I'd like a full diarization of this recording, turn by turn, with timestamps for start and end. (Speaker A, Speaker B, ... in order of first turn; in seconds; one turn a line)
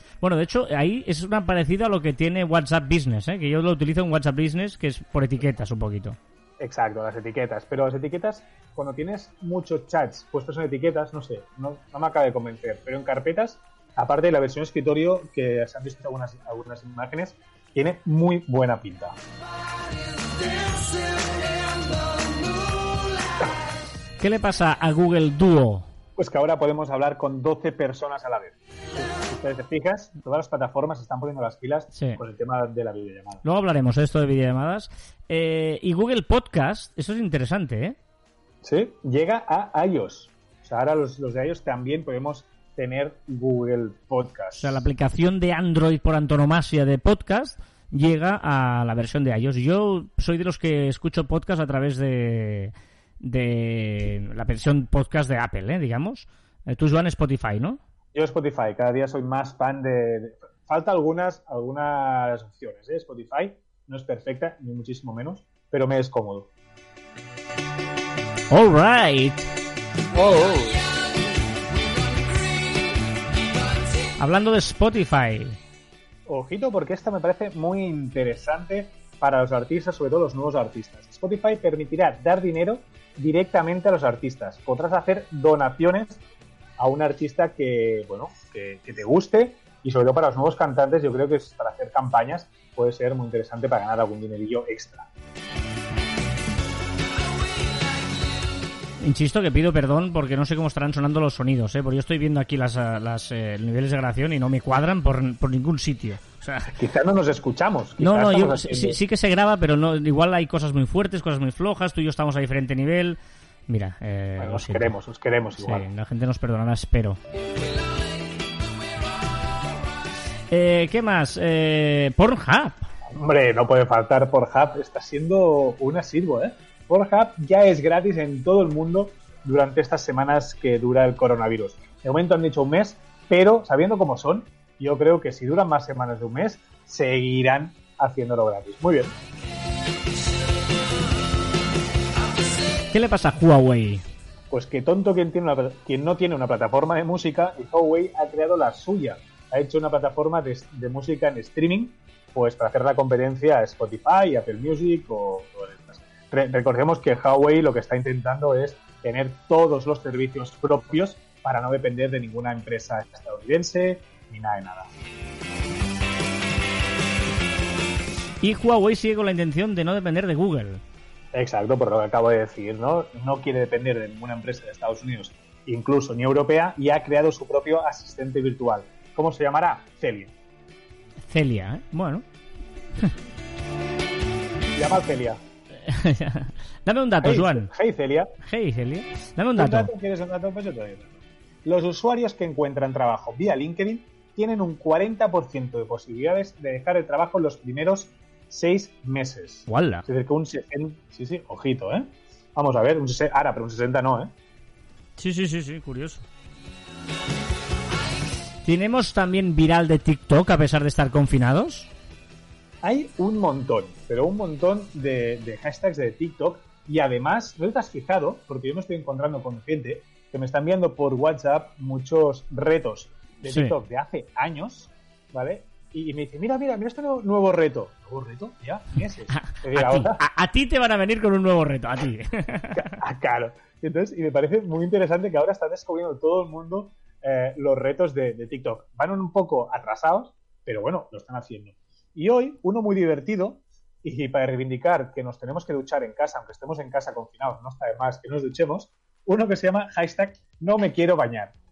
Speaker A: 0.2-6.2
Speaker B: 6.6-19.2
Speaker A: 24.2-25.9
Speaker B: 26.2-33.4
Speaker A: 31.9-32.2
Speaker A: 33.4-38.0
Speaker B: 38.6-44.8
Speaker A: 44.6-57.8
Speaker B: 58.1-66.5
Speaker A: 68.5-69.5
Speaker B: 70.1-70.8
Speaker A: 74.2-75.6
Speaker B: 76.3-86.2
Speaker B: 86.8-95.1
Speaker A: 99.0-106.7
Speaker B: 106.7-109.0
Speaker A: 108.0-114.9
Speaker B: 114.4-115.9
Speaker A: 115.6-117.2
Speaker A: 120.5-122.9
Speaker B: 123.1-139.2
Speaker A: 142.9-144.0
Speaker B: 144.5-164.9
Speaker A: 168.4-170.8
Speaker B: 171.3-180.3
Speaker A: 181.3-182.2
Speaker B: 184.8-185.4
Speaker A: 185.8-187.7
Speaker B: 187.2-188.3
Speaker A: 188.4-189.9
Speaker B: 189.6-204.3
Speaker A: 199.7-200.1
Speaker A: 205.2-206.2
Speaker A: 208.6-211.9
Speaker B: 212.8-230.2
Speaker A: 223.4-223.7
Speaker A: 229.3-232.9
Speaker B: 232.7-251.5